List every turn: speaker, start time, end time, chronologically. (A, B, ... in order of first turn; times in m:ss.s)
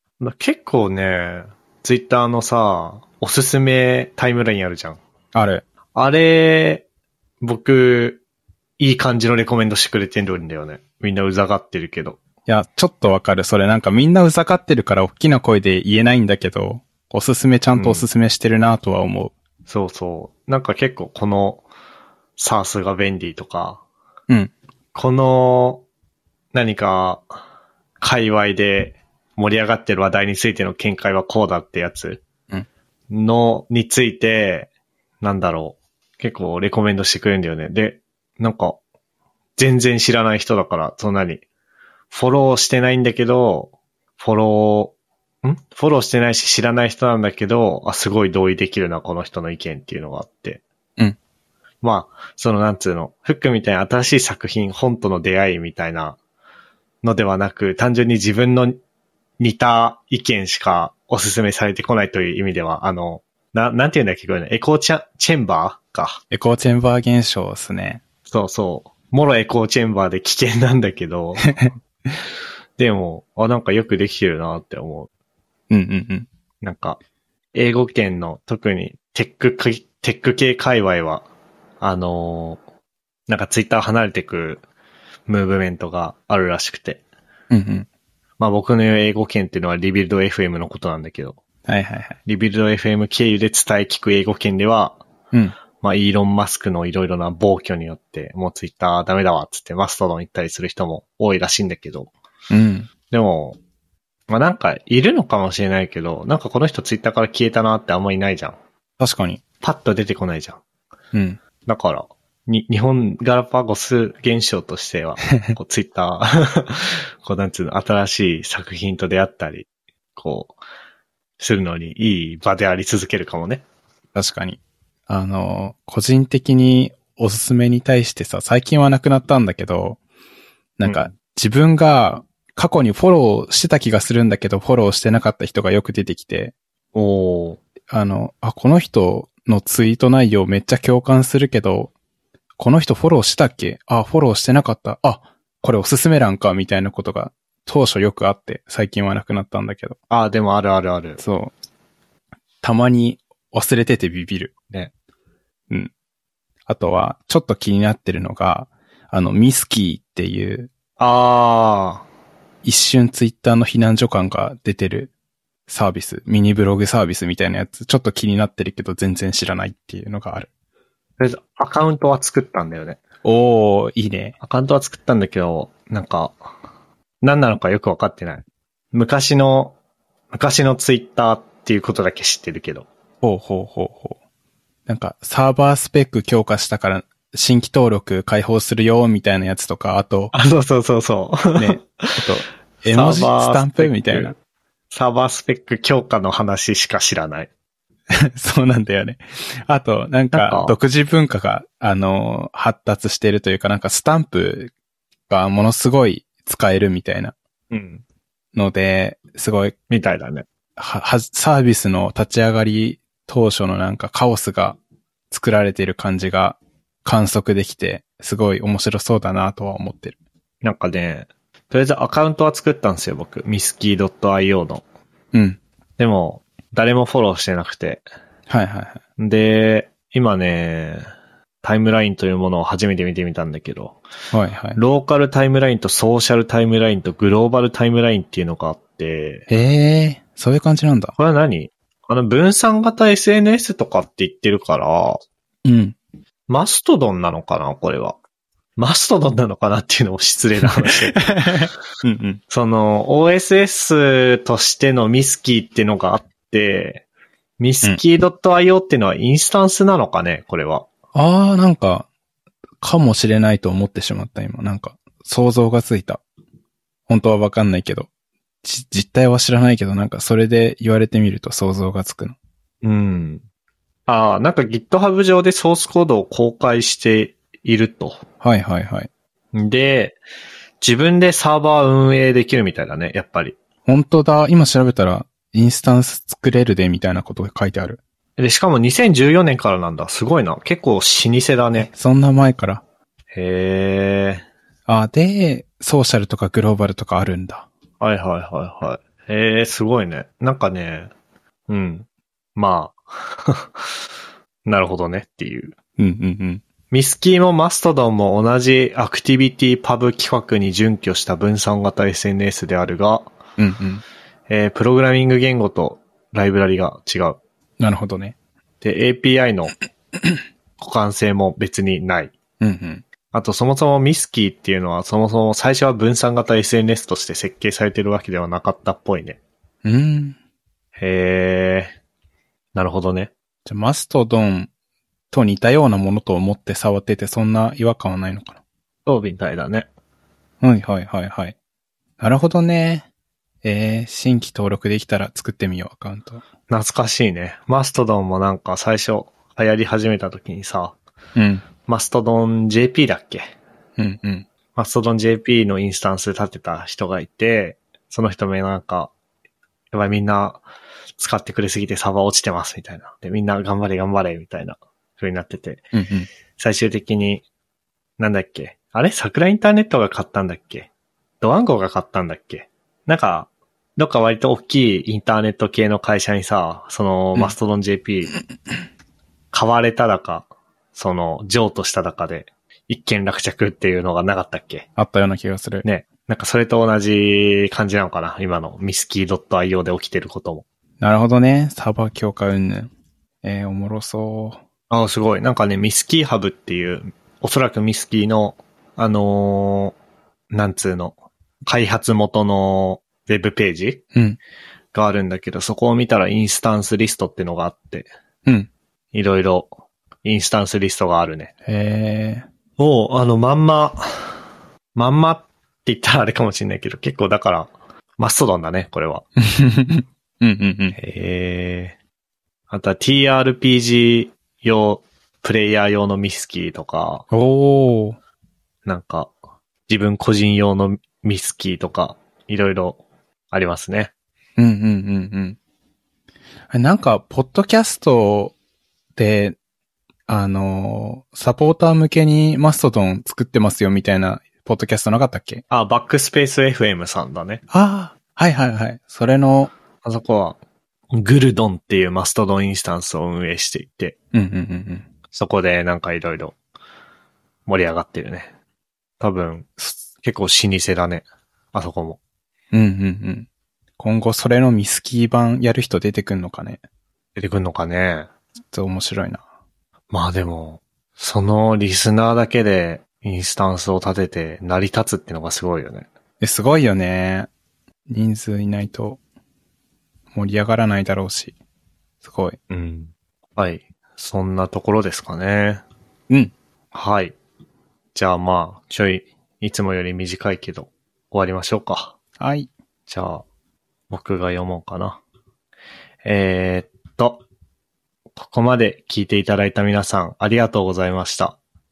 0:00.2-0:05.0 A
0:05.3-0:05.6 B
0:05.9-0:06.8 A
0:07.4-0:08.2 A
0:08.8-0:12.2 A
0:12.5-0:19.3 B
0:17.7-0:18.1 A
0:19.7-0:21.6 A
0:22.4-0:23.8 A
0:24.9-0:25.8 A
0:26.5-0:27.3 A
0:28.0-0:32.2 A
0:33.1-0:34.7 A
0:35.2-0:38.8 A
0:39.6-0:41.4 A
0:42.1-0:50.6 A
0:51.8-0:56.2 A
0:57.0-0:58.8 A
0:59.4-1:06.2 A
1:06.3-1:08.0 B
1:08.3-1:11.7 A
1:11.4-1:11.7 B
1:12.8-1:15.1 A
1:15.7-1:16.3 B
1:16.6-1:17.0 A
1:17.5-1:21.3 A
1:21.8-1:22.6 A
1:23.3-1:24.6 A
1:25.3-1:27.0 A
1:27.5-1:27.9 B
1:28.4-1:31.4 A
1:31.6-1:32.2 B
1:32.2-1:35.0 A
1:35.8-1:42.1 A
1:42.5-1:42.9 B
1:43.1-1:43.6 A
1:44.3-1:48.6 A
1:49.0-1:49.4 B
1:49.6-1:50.6 A
1:51.1-1:51.4 B
1:51.6-2:00.6 A
1:55.3-1:55.6 B
2:01.4-2:03.6 A
2:04.1-2:04.6 B
2:05.1-2:10.0 B
2:10.8-2:16.5 B
2:10.8-2:11.1 A
2:16.9-2:17.6 A
2:17.9-2:21.9 B
2:22.6-2:30.0 B
2:30.1-2:31.2 A
2:31.2-2:31.5 B
2:32.6-2:34.5 B
2:36.7-2:40.7 B
2:41.0-2:42.0 A
2:42.6-2:45.1 B
2:45.7-2:50.5 B
2:51.2-2:53.0 A
2:53.2-2:54.3 B
2:54.4-2:56.4 A
2:57.2-2:59.7 A
3:00.3-3:02.9 A
3:03.2-3:04.2 B
3:04.9-3:10.3 B
3:10.3-3:12.2 A
3:11.6-3:14.4 B
3:12.8-3:14.3 A
3:14.9-3:17.5 A
3:18.1-3:24.7 B
3:20.3-3:20.7 A
3:25.3-3:27.3 B
3:27.7-3:28.0 A
3:28.5-3:29.7 B
3:29.9-3:30.4 A
3:30.8-3:34.8 B
3:35.3-3:40.1 B
3:40.6-3:44.8 A
3:45.3-3:45.6 B
3:46.0-3:48.0 A
3:48.5-3:49.0 B
3:49.2-3:51.0 A
3:51.6-3:54.0 A
3:54.3-3:54.8 B
3:54.8-3:59.4 A
3:59.5-4:01.1 B
4:01.2-4:05.2 A
4:05.6-4:05.9 B
4:06.5-4:08.2 A
4:08.8-4:11.3 A
4:10.8-4:12.4 B
4:12.5-4:17.0 A
4:17.6-4:20.9 A
4:21.1-4:22.1 B
4:22.8-4:26.2 B
4:27.1-4:28.1 B
4:28.6-4:32.4 B
4:32.8-4:33.4 A
4:34.1-4:38.2 A
4:38.4-4:39.1 B
4:39.5-4:40.2 A
4:40.8-4:43.6 A
4:43.8-4:48.0 B
4:48.4-4:51.9 A
4:51.9-4:52.8 B
4:53.3-4:54.4 A
4:54.9-4:57.7 B
4:58.0-5:01.1 A
5:01.7-5:04.0 A
5:04.6-5:05.7 A
5:06.0-5:06.6 B
5:06.9-5:13.3 A
5:13.6-5:14.0 B
5:14.5-5:17.4 A
5:17.8-5:18.3 B
5:18.8-5:19.7 A
5:20.8-5:22.3 A
5:22.6-5:23.0 B
5:23.3-5:29.4 A
5:29.8-5:30.4 B
5:31.0-5:31.9 A
5:32.7-5:33.3 A
5:33.6-5:34.7 B
5:35.3-5:38.6 B
5:39.0-5:39.9 A
5:40.6-5:41.5 B
5:42.2-5:43.0 B
5:43.6-5:46.4 B
5:46.7-5:51.0 A
5:51.4-5:51.6 B
5:51.8-5:53.4 A
5:54.0-5:54.4 B
5:54.7-5:59.1 A
5:59.9-6:00.6 A
6:01.2-6:05.9 A
6:05.9-6:06.3 B
6:06.6-6:07.4 A
6:08.2-6:10.9 A
6:11.4-6:18.3 A
6:19.5-6:24.8 A
6:25.0-6:25.8 B
6:25.8-6:30.6 A
6:31.0-6:32.9 B
6:33.4-6:34.6 B
6:34.9-6:39.9 A
6:40.5-6:44.0 A
6:44.9-6:48.1 A
6:49.1-6:49.7 A
6:50.2-6:51.5 A
6:51.6-6:52.4 B
6:52.8-6:54.4 A
6:54.9-6:59.2 A
6:59.4-7:01.0 B
7:00.9-7:02.0 A
7:02.7-7:07.2 A
7:07.3-7:08.2 B
7:08.8-7:09.3 A
7:09.9-7:13.0 A
7:13.5-7:14.1 A
7:14.6-7:15.6 B
7:16.7-7:18.5 B
7:19.2-7:19.6 B
7:20.3-7:25.6 B
7:25.7-7:27.6 A
7:27.7-7:29.7 B
7:30.0-7:30.6 A
7:31.1-7:34.2 A
7:34.3-7:35.0 B
7:35.3-7:36.6 A
7:37.7-7:38.5 A
7:39.2-7:42.2 A
7:42.7-7:43.5 B
7:44.0-7:46.8 B
7:47.4-7:48.3 A
7:48.7-7:49.4 B
7:50.1-7:56.1 A
7:56.4-7:57.5 B
7:58.1-7:59.2 B
8:00.3-8:01.5 B
8:02.2-8:02.6 B
8:02.7-8:05.8 A
8:06.9-8:07.3 A
8:08.1-8:12.1 A
8:12.4-8:12.7 B
8:13.1-8:13.4 A
8:14.1-8:15.2 A
8:16.2-8:17.4 A
8:18.4-8:21.6 A